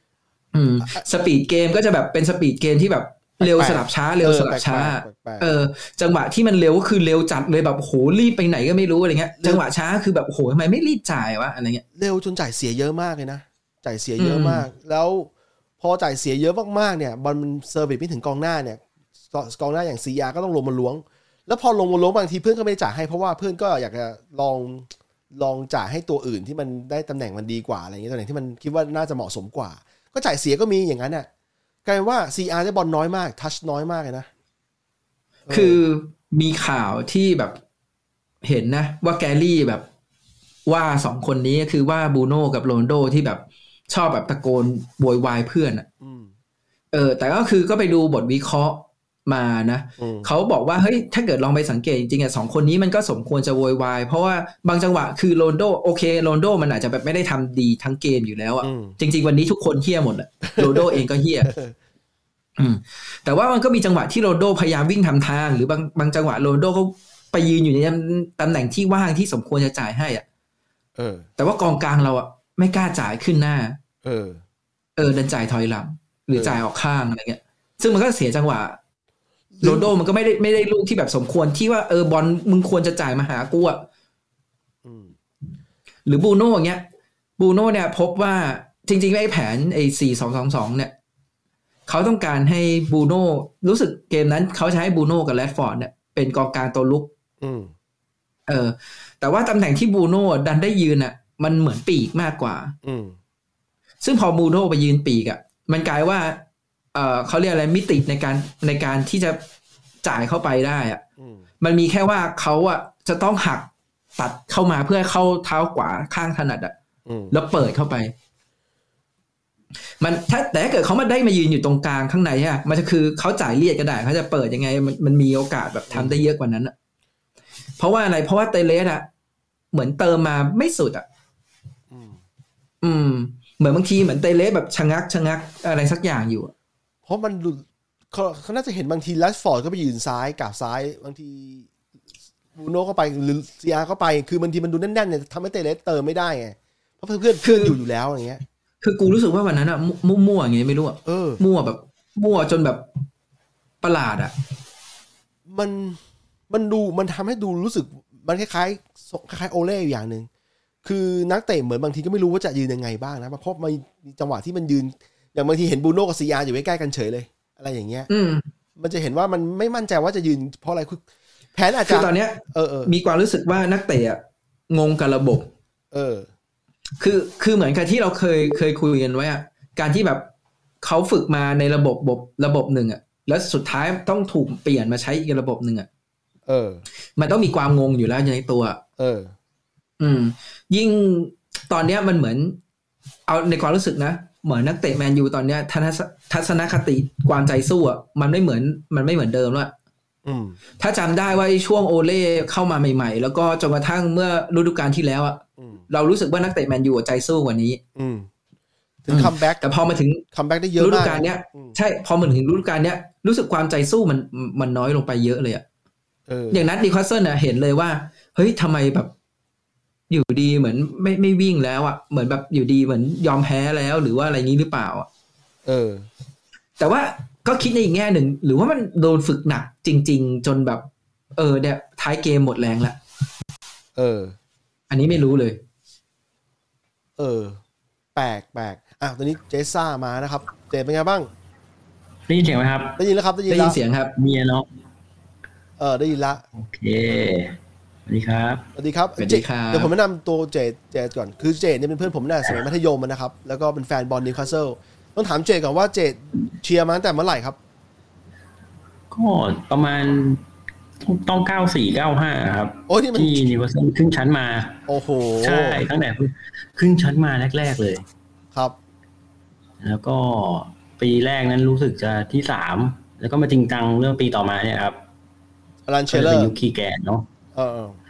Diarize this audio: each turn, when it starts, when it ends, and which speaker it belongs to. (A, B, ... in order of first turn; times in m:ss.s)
0:00.5-0:11.8 A
0:03.4-0:05.5 B
0:12.0-0:31.3 B
0:14.2-0:14.7 A
0:31.8-0:34.3 B
0:35.5-0:35.8 B
0:35.5-0:37.6 A
0:38.4-0:39.9 A
0:40.7-0:45.9 A
0:46.0-0:46.3 B
0:46.9-1:01.5 A
0:50.0-0:50.3 B
0:58.6-0:59.0 B
1:00.6-1:01.8 B
1:02.6-1:10.2 A
1:11.0-1:11.3 B
1:11.4-1:13.8 A
1:14.0-1:14.4 B
1:15.0-1:18.8 A
1:16.3-1:16.6 B
1:19.5-1:19.9 B
1:19.6-1:23.9 A
1:24.8-1:25.1 B
1:26.1-1:26.8 A
1:27.4-1:30.9 A
1:31.9-1:37.1 A
1:37.4-1:37.7 B
1:38.5-1:42.8 A
1:42.8-1:43.2 B
1:44.0-1:46.4 A
1:46.9-1:49.4 A
1:50.0-1:51.0 A
1:51.2-1:51.5 B
1:51.6-1:56.7 A
1:57.1-1:57.4 B
1:57.3-1:58.1 A
2:00.0-2:06.7 A
2:05.9-2:06.2 B
2:07.8-2:09.1 A
2:09.7-2:11.0 A
2:11.9-2:12.2 B
2:12.8-2:16.5 A
2:17.1-2:21.7 B
2:22.6-2:28.4 B
2:27.4-2:27.8 A
2:28.8-2:32.9 A
2:31.1-2:31.4 B
2:33.8-2:34.3 A
2:35.5-2:36.0 B
2:36.5-2:40.3 B
2:40.8-2:48.1 B
2:48.1-2:48.4 A
2:48.8-2:51.0 B
2:51.5-2:52.9 B
2:51.8-2:55.5 A
2:55.9-2:56.3 B
2:57.0-3:00.3 A
3:00.8-3:05.9 A
3:06.5-3:06.8 B
3:07.2-3:08.8 A
3:09.0-3:09.3 B
3:10.0-3:12.6 A
3:13.3-3:19.7 A
3:20.2-3:20.6 B
3:20.8-3:27.8 A
3:25.6-3:25.8 B
3:28.0-3:28.3 B
3:29.0-3:29.6 B
3:29.1-3:30.2 A
3:30.3-3:31.8 B
3:30.8-3:35.6 A
3:36.3-3:36.7 B
3:36.5-3:39.1 A
3:40.1-3:45.1 A
3:45.7-3:46.1 B
3:46.8-3:53.0 A
3:54.0-3:54.4 B
3:54.9-3:55.6 A
3:57.2-3:57.6 B
3:58.2-4:01.3 B
4:02.3-4:03.0 C
4:03.0-4:03.8 B
4:03.5-4:04.1 A
4:04.2-4:04.7 C
4:05.8-4:06.4 B
4:06.6-4:08.7 C
4:08.8-4:17.6 B
4:09.2-4:09.9 A
4:19.1-4:20.4 C
4:21.0-4:24.9 C
4:22.9-4:23.4 B
4:24.9-4:25.9 B
4:25.4-4:28.0 C
4:29.8-4:35.0 C
4:35.9-4:36.5 B
4:36.1-4:37.3 C
4:37.5-4:38.0 B